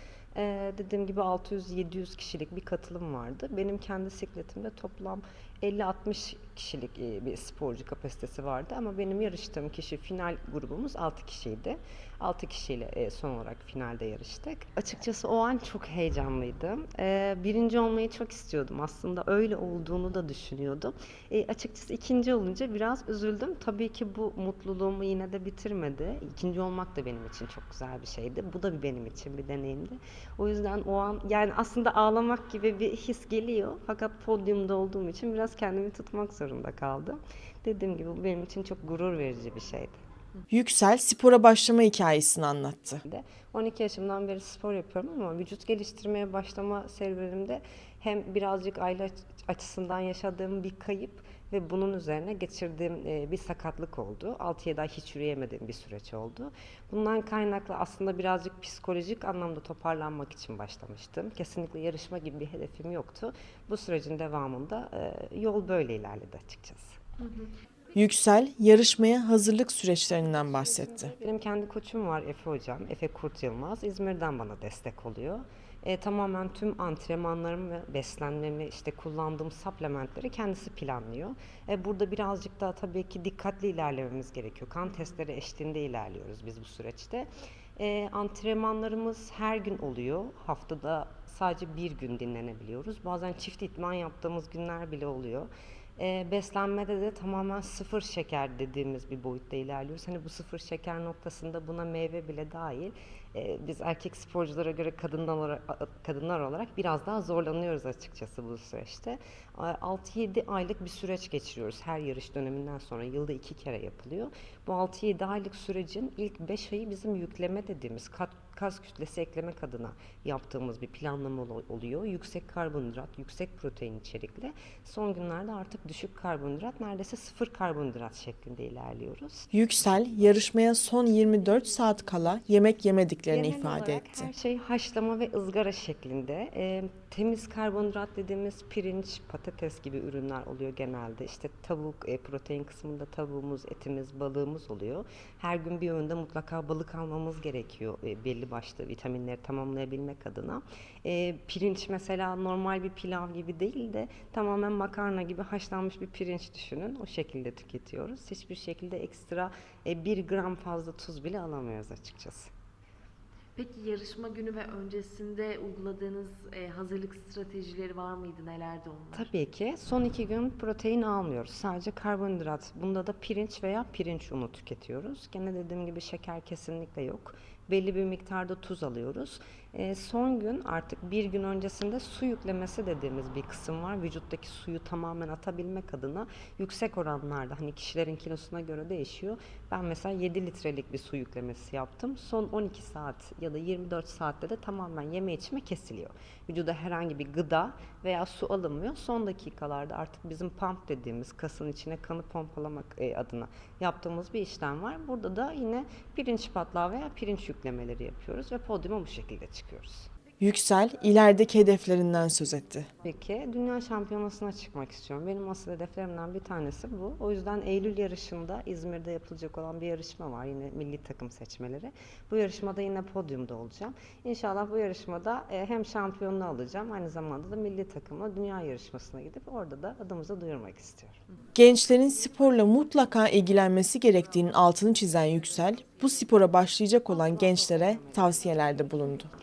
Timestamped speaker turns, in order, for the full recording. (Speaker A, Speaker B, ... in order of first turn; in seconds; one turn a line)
Speaker A: 0.3-40.0
Speaker B: 40.5-43.0
Speaker A: 43.0-67.0
Speaker C: 67.2-67.5
Speaker B: 68.0-71.2
Speaker A: 71.2-129.5
Speaker B: 129.5-134.3
Speaker A: 133.3-162.5
Speaker C: 163.6-169.3
Speaker A: 169.1-210.1
Speaker B: 210.4-212.9
Speaker A: 213.0-231.2
Speaker B: 231.6-239.3
Speaker A: 237.1-238.8